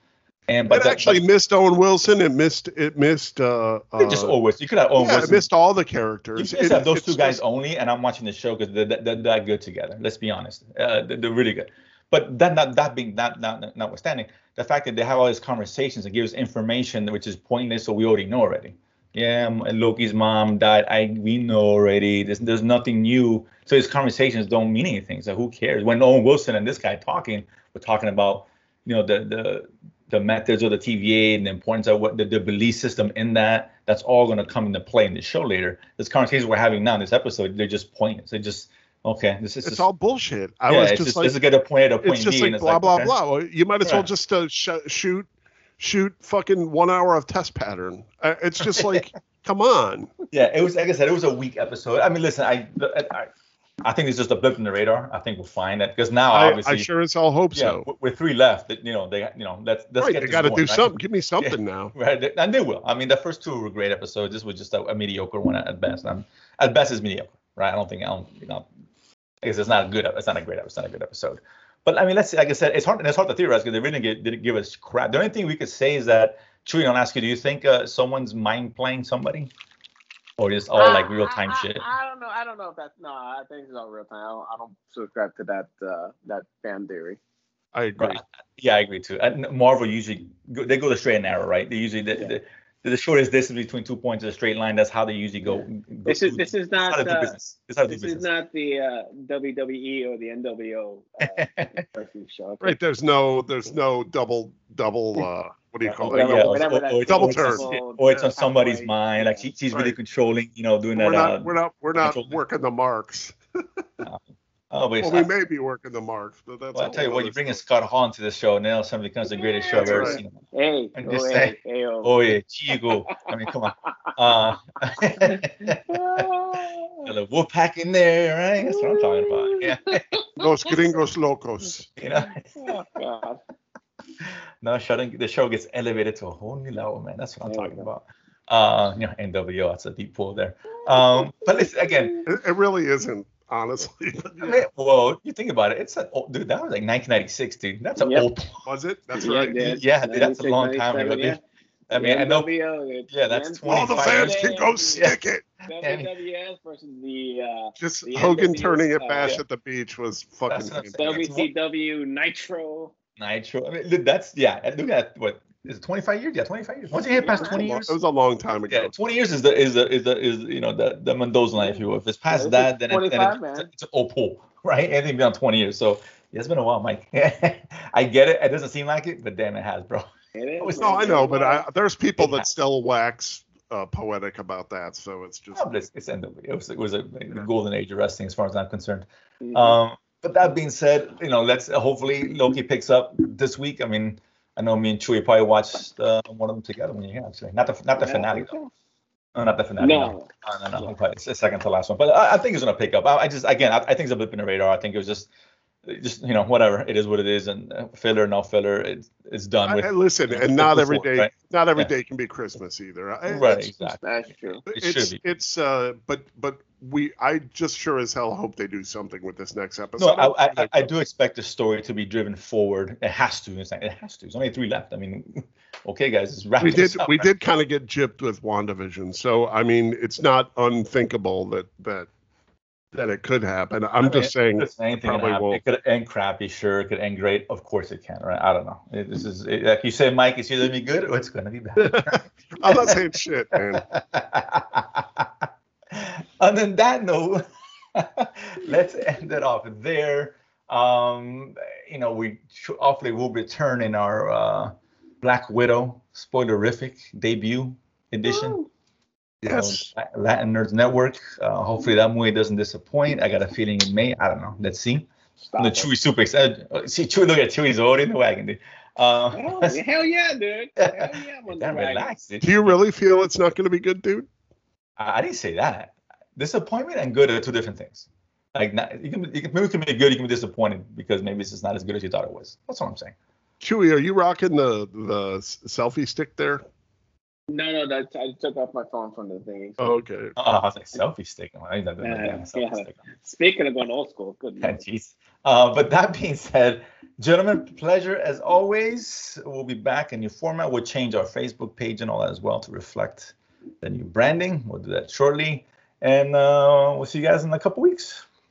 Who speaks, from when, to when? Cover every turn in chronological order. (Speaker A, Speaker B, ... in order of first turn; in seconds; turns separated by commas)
Speaker A: 0.5-1.2, Speaker B: 0.7-4.3, Speaker A: 4.0-5.4, Speaker B: 5.0-7.4, Speaker A: 6.4-39.9, Speaker B: 39.6-41.4, Speaker A: 40.7-43.1, Speaker B: 42.0-45.3, Speaker A: 43.8-44.1, Speaker B: 45.8-50.1, Speaker A: 48.7-49.0, Speaker A: 50.3-53.3, Speaker A: 53.8-56.9, Speaker B: 56.3-57.9, Speaker A: 57.5-68.7, Speaker B: 60.0-61.9, Speaker A: 69.4-79.5, Speaker A: 80.4-81.8, Speaker C: 80.8-87.2, Speaker B: 87.7-88.2, Speaker A: 88.0-98.3, Speaker C: 96.1-97.4, Speaker C: 97.9-102.8, Speaker A: 101.4-101.7, Speaker B: 102.6-107.7, Speaker A: 105.8-112.4, Speaker C: 106.1-109.5, Speaker B: 109.7-110.0, Speaker B: 111.0-113.8, Speaker A: 114.0-115.3, Speaker B: 115.0-117.6, Speaker A: 116.7-120.4, Speaker C: 119.3-122.2, Speaker B: 119.7-120.2, Speaker A: 121.0-126.2, Speaker C: 122.7-123.9, Speaker C: 125.0-127.1, Speaker A: 127.0-130.0, Speaker C: 128.6-130.7, Speaker B: 130.4-131.9, Speaker A: 132.0-132.8, Speaker C: 132.6-133.4, Speaker A: 134.2-142.2, Speaker C: 137.4-137.9, Speaker C: 140.8-142.3, Speaker B: 142.3-144.6, Speaker A: 144.4-148.7, Speaker C: 148.0-148.3, Speaker B: 148.7-149.6, Speaker C: 149.2-151.4, Speaker A: 149.5-151.4, Speaker A: 151.9-152.5, Speaker C: 151.9-155.1, Speaker A: 153.1-155.2, Speaker B: 153.7-155.5, Speaker C: 155.7-159.4, Speaker A: 155.8-156.1, Speaker B: 157.8-161.0, Speaker A: 160.5-161.5, Speaker C: 161.0-162.9, Speaker A: 163.2-167.9, Speaker C: 167.2-167.7, Speaker B: 167.4-168.9, Speaker A: 168.7-180.1, Speaker C: 171.6-173.7, Speaker C: 180.3-181.7, Speaker A: 180.6-181.2, Speaker B: 180.8-185.7, Speaker A: 182.2-182.5, Speaker A: 185.5-198.5, Speaker C: 189.4-189.8, Speaker C: 198.0-198.7, Speaker A: 199.3-205.3, Speaker C: 199.8-200.3, Speaker A: 205.8-211.9, Speaker B: 209.7-213.7, Speaker A: 213.3-214.0, Speaker C: 214.0-214.6, Speaker B: 214.7-220.9, Speaker A: 214.7-215.2, Speaker A: 220.0-227.3, Speaker B: 226.6-232.1, Speaker B: 232.9-235.6, Speaker A: 234.0-243.0, Speaker B: 241.8-243.9, Speaker A: 243.7-247.4, Speaker A: 247.9-258.6, Speaker C: 258.2-258.7, Speaker B: 259.4-259.9, Speaker A: 259.5-269.8, Speaker C: 265.5-265.9, Speaker C: 269.3-272.1, Speaker A: 270.8-272.8, Speaker B: 272.4-274.3, Speaker A: 275.0-283.1, Speaker B: 283.6-286.6, Speaker C: 287.5-289.9, Speaker B: 289.8-290.4, Speaker A: 290.4-293.0, Speaker C: 292.0-294.8, Speaker A: 294.6-308.2